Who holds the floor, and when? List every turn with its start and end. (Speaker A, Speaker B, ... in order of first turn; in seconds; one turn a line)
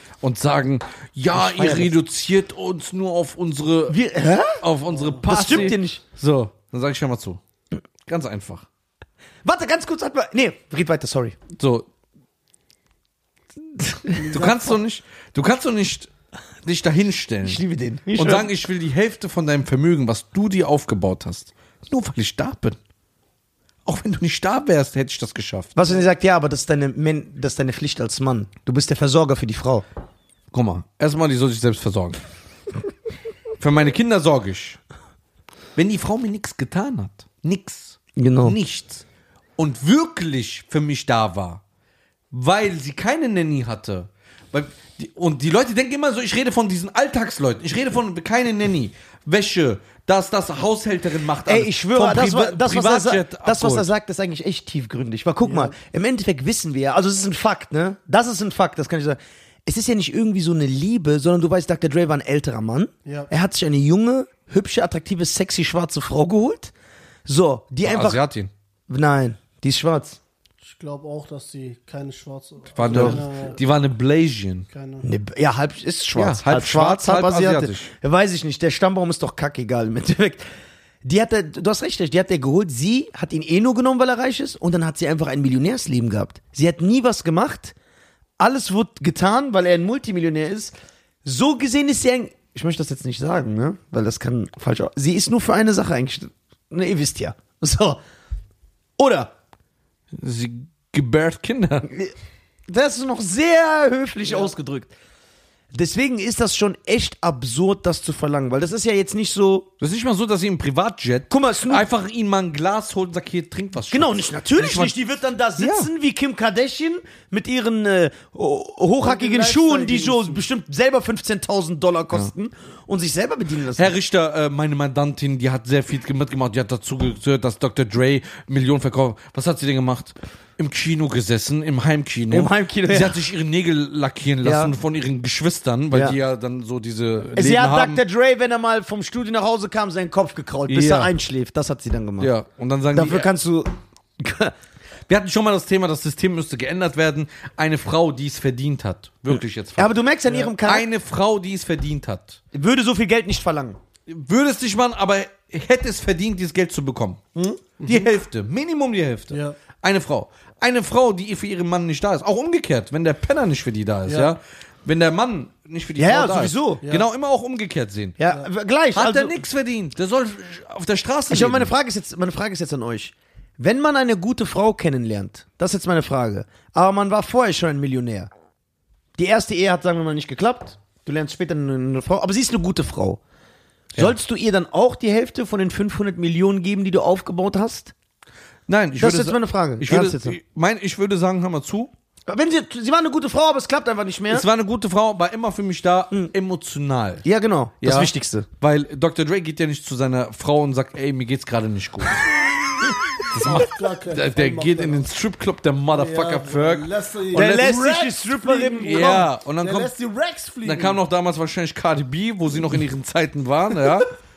Speaker A: 0.2-4.0
Speaker B: 1.3-1.9
Speaker B: 3.9-4.6
Speaker A: 4.6-7.4
Speaker C: 4.9-5.7
Speaker B: 5.3-6.0
Speaker A: 8.1-8.7
Speaker B: 9.4-11.3
Speaker A: 11.6-11.8
Speaker A: 13.7-16.1
Speaker C: 14.3-14.7
Speaker B: 14.3-14.7
Speaker A: 16.6-17.6
Speaker B: 17.4-18.5
Speaker A: 18.1-22.8
Speaker A: 23.9-26.0
Speaker B: 25.8-29.8
Speaker A: 30.5-32.2
Speaker A: 33.6-34.8
Speaker A: 35.8-39.0
Speaker B: 38.2-38.5
Speaker A: 39.6-41.6
Speaker A: 42.3-53.9
Speaker B: 51.5-66.7
Speaker C: 55.4-55.8
Speaker C: 63.0-63.3
Speaker B: 67.2-68.2
Speaker A: 67.8-68.5
Speaker B: 68.9-70.2
Speaker C: 70.6-73.6
Speaker A: 72.7-74.7
Speaker B: 72.9-73.2
Speaker C: 74.7-75.1
Speaker B: 75.0-80.4
Speaker A: 76.2-77.9
Speaker B: 81.0-87.7
Speaker B: 88.4-90.7
Speaker B: 91.2-98.0
Speaker B: 99.0-99.3
Speaker A: 100.1-101.9
Speaker B: 102.7-104.9
Speaker B: 105.7-109.7
Speaker A: 109.8-114.9
Speaker B: 111.3-111.9
Speaker B: 113.9-123.9
Speaker A: 115.6-115.9
Speaker C: 119.0-120.4
Speaker A: 123.7-138.0
Speaker B: 132.3-133.2
Speaker B: 134.4-134.7
Speaker B: 135.9-136.2
Speaker B: 137.3-142.3
Speaker A: 140.7-141.1
Speaker A: 142.2-143.3
Speaker B: 142.9-144.5
Speaker A: 145.1-152.4
Speaker B: 149.8-150.9
Speaker B: 152.5-153.8
Speaker A: 154.1-157.3
Speaker C: 157.8-158.1
Speaker A: 157.8-168.2
Speaker C: 159.3-159.6
Speaker C: 164.1-164.3
Speaker B: 166.0-166.8
Speaker C: 166.8-167.1
Speaker B: 168.2-169.4
Speaker A: 168.9-171.7
Speaker B: 171.3-178.3
Speaker B: 179.2-183.2
Speaker B: 183.9-187.9
Speaker A: 188.7-191.9
Speaker B: 189.0-190.4
Speaker B: 192.3-194.4
Speaker A: 194.3-197.2
Speaker B: 197.2-198.5
Speaker A: 197.8-202.3
Speaker A: 203.3-207.6
Speaker C: 203.3-205.1
Speaker C: 205.9-211.0
Speaker B: 207.3-209.3
Speaker A: 208.8-209.9
Speaker A: 210.6-214.1